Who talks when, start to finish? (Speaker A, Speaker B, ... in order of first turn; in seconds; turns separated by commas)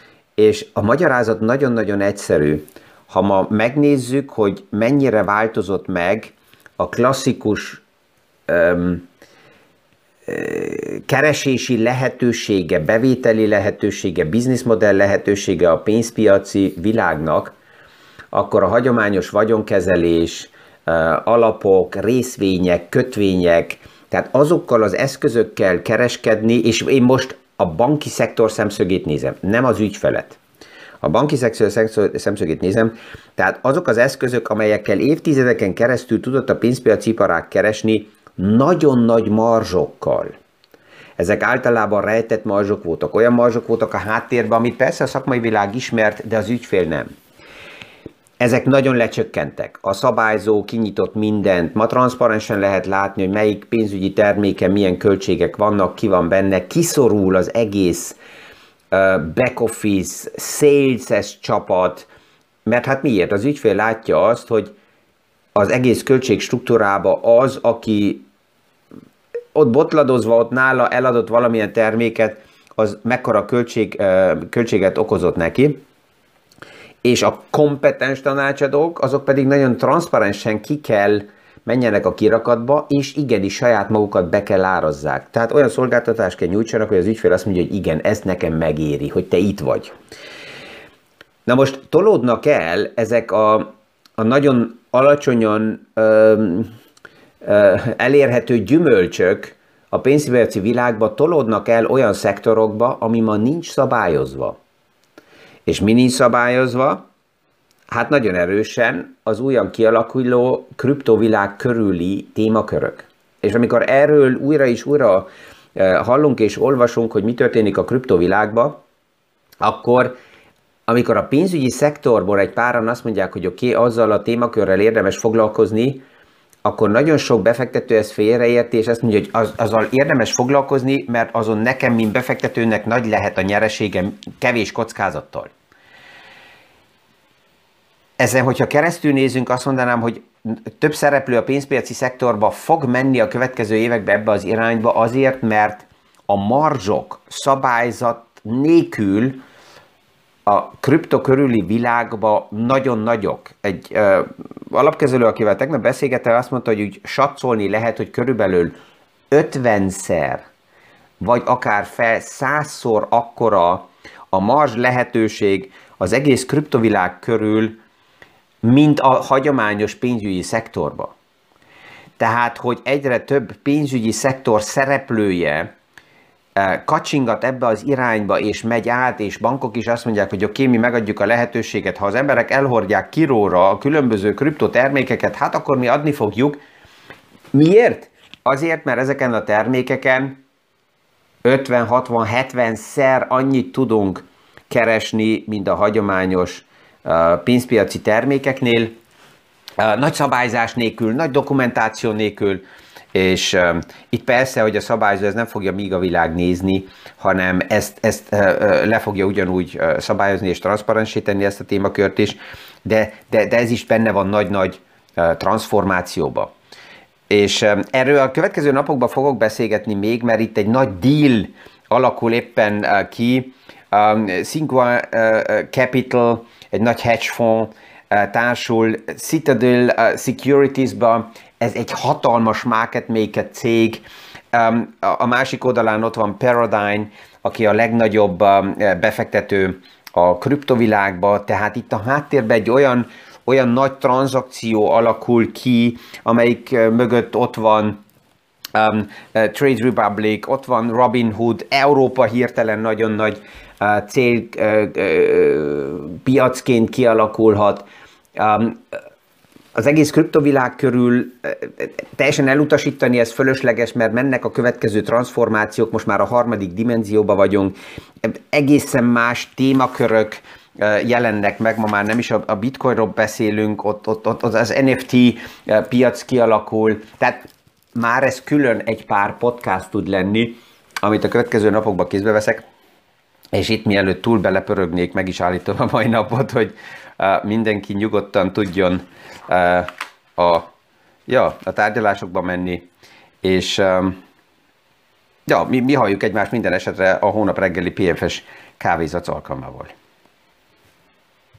Speaker A: 0.4-7.8, Speaker A: 8.5-9.1, Speaker A: 10.2-17.5, Speaker A: 18.3-30.4, Speaker A: 31.0-40.4, Speaker A: 41.2-47.1, Speaker A: 48.4-58.2, Speaker A: 58.9-62.1, Speaker A: 62.6-64.7, Speaker A: 65.5-68.3, Speaker A: 69.5-75.8, Speaker A: 77.0-89.9, Speaker A: 91.5-96.7, Speaker A: 97.4-104.6, Speaker A: 105.7-107.0, Speaker A: 107.9-118.8, Speaker A: 119.6-120.1, Speaker A: 120.9-126.0, Speaker A: 126.6-135.5, Speaker A: 138.2-149.4, Speaker A: 150.4-158.8, Speaker A: 159.3-160.4, Speaker A: 161.2-167.8, Speaker A: 168.6-171.1, Speaker A: 172.2-175.7, Speaker A: 176.6-186.6, Speaker A: 187.5-190.4, Speaker A: 191.4-198.9, Speaker A: 199.8-202.6, Speaker A: 203.1-216.5, Speaker A: 217.3-248.0, Speaker A: 248.7-259.0, Speaker A: 259.7-282.6, Speaker A: 283.5-290.7, Speaker A: 291.3-292.9, Speaker A: 293.4-294.2, Speaker A: 295.5-299.9